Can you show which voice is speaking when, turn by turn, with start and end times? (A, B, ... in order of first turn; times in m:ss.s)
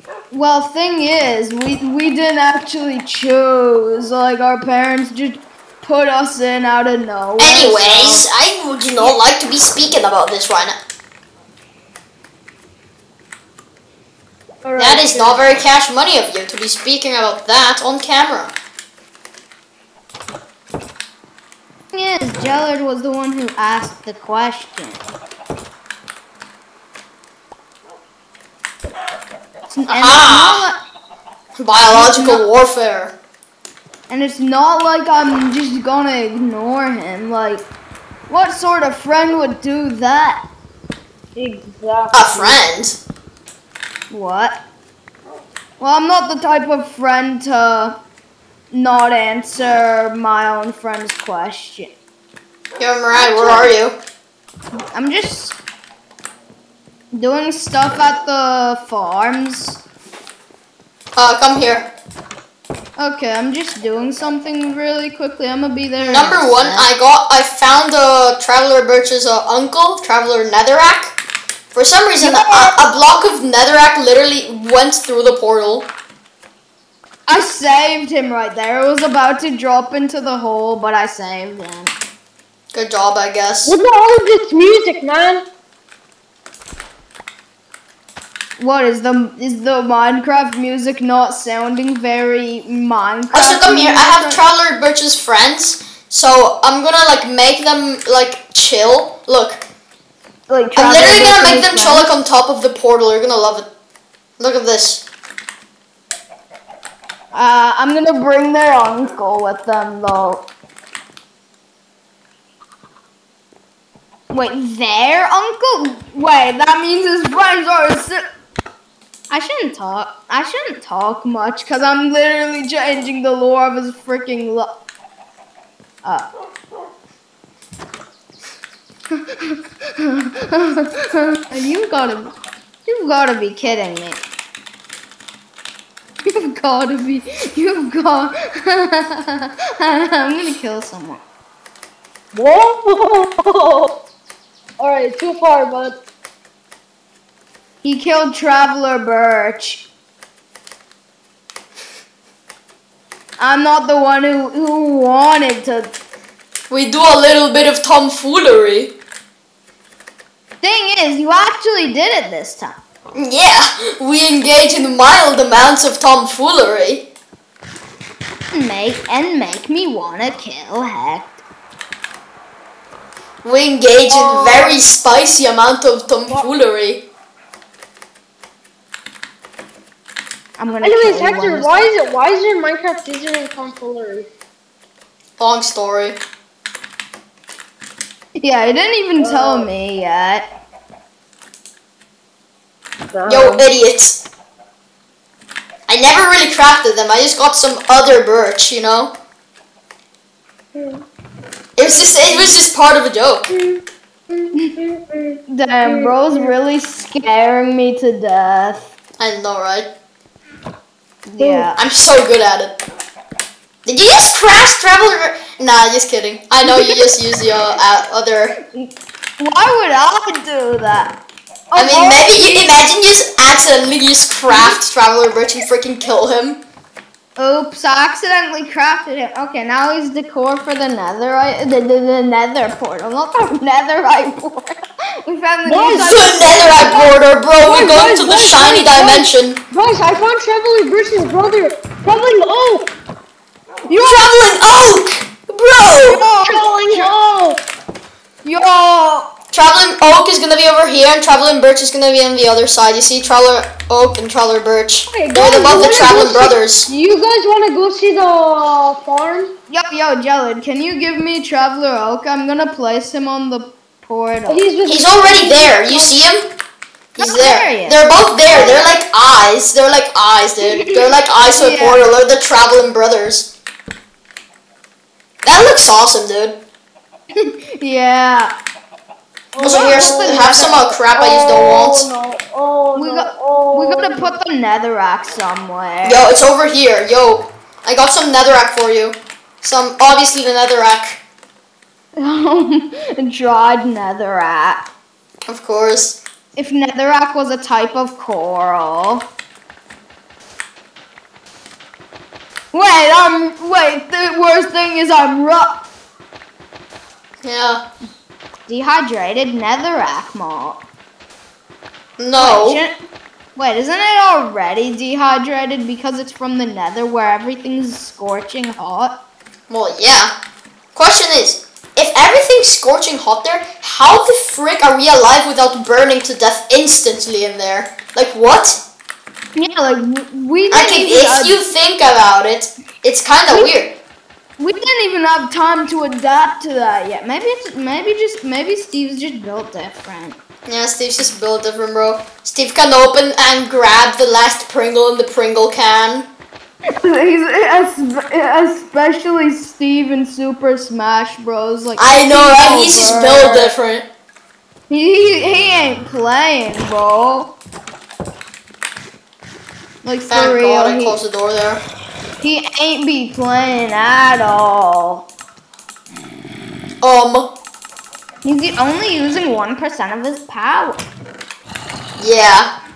0:00.3-0:08.3 A
0:07.4-0:10.8 B
0:14.6-0:15.5 C
0:14.8-0:18.5 B
0:21.9-0:25.0 A
0:29.7-0:30.8 A
0:29.9-0:30.6 B
0:31.6-0:33.1 B
0:31.9-0:32.4 A
0:34.1-0:37.6 A
0:38.3-0:40.4 A
0:41.4-0:42.6 C
0:42.1-0:43.0 B
0:44.1-0:44.6 A
0:45.8-0:48.0 A
0:48.7-0:51.9 A
0:52.8-0:54.0 B
0:53.1-0:53.8 A
0:54.9-0:55.6 A
0:57.1-0:59.8 A
1:01.2-1:01.9 B
1:03.0-1:06.9 A
1:06.0-1:11.2 B
1:11.7-1:15.9 B
1:12.2-1:12.8 A
1:17.3-1:21.9 A
1:22.7-1:23.7 B
1:23.6-1:25.4 C
1:28.6-1:34.4 A
1:33.3-1:39.6 B
1:40.5-1:42.1 A
1:40.8-1:43.7 B
1:44.4-1:45.0 B
1:47.3-1:50.5 A
1:54.3-1:58.2 A
1:59.3-2:04.8 A
2:06.0-2:06.3 A
2:09.1-2:12.3 A
2:12.8-2:14.2 A
2:16.2-2:21.2 A
2:22.3-2:24.0 C
2:24.8-2:26.0 C
2:27.8-2:29.8 A
2:33.4-2:35.9 A
2:36.7-2:38.9 B
2:40.6-2:42.8 A
2:43.1-2:47.1 B
2:48.5-2:51.4 A
2:53.4-2:57.0 B
2:54.1-2:54.8 C
3:00.6-3:01.9 A
3:00.8-3:04.3 C
3:05.4-3:06.2 B
3:08.4-3:10.5 A
3:09.2-3:09.7 C
3:13.1-3:13.6 C
3:13.2-3:14.2 B
3:15.9-3:19.1 B
3:20.7-3:21.0 C
3:21.8-3:23.5 B
3:21.8-3:22.5 C
3:23.5-3:26.5 C
3:25.5-3:28.9 A
3:29.2-3:29.9 B
3:31.2-3:31.8 A
3:31.4-3:31.7 C
3:31.8-3:32.8 B
3:33.8-3:38.5 B
3:36.6-3:37.0 A
3:38.7-3:41.2 A
3:41.7-3:42.7 A
3:41.8-3:46.6 B
3:47.4-3:57.1 A
3:55.6-4:02.9 C
3:56.0-3:59.6 B
4:03.9-4:04.4 A
4:04.0-4:06.2 B
4:06.1-4:07.1 A
4:06.2-4:07.6 C
4:08.4-4:09.3 A
4:09.5-4:16.9 B
4:15.1-4:19.5 C
4:19.7-4:24.6 A
4:24.5-4:26.2 C
4:24.8-4:26.5 B
4:27.2-4:28.0 A
4:27.2-4:33.5 B
4:28.5-4:28.9 C
4:30.8-4:32.0 A
4:35.4-4:36.6 B
4:37.3-4:38.5 A
4:39.5-4:44.3 C
4:39.6-4:42.0 B
4:39.6-4:41.0 A
4:42.9-4:46.2 A
4:46.0-4:51.2 B
4:52.2-4:54.9 A
4:55.5-4:56.2 B
4:56.6-4:59.3 A
5:02.7-5:05.8 A
5:07.4-5:07.8 B
5:08.7-5:10.8 A
5:12.2-5:12.8 B
5:12.4-5:12.9 A
5:13.6-5:19.2 A
5:19.7-5:20.3 B
5:20.9-5:28.8 B
5:29.6-5:31.6 A
5:30.7-5:33.9 B
5:34.6-5:40.4 A
5:40.7-5:46.3 B
5:47.0-5:53.7 A
5:52.0-5:54.1 B
5:54.9-5:57.6 A
6:00.0-6:01.2 A
6:00.3-6:01.8 B
6:02.4-6:05.3 A
6:07.0-6:07.5 B
6:08.4-6:11.0 A
6:12.2-6:12.7 B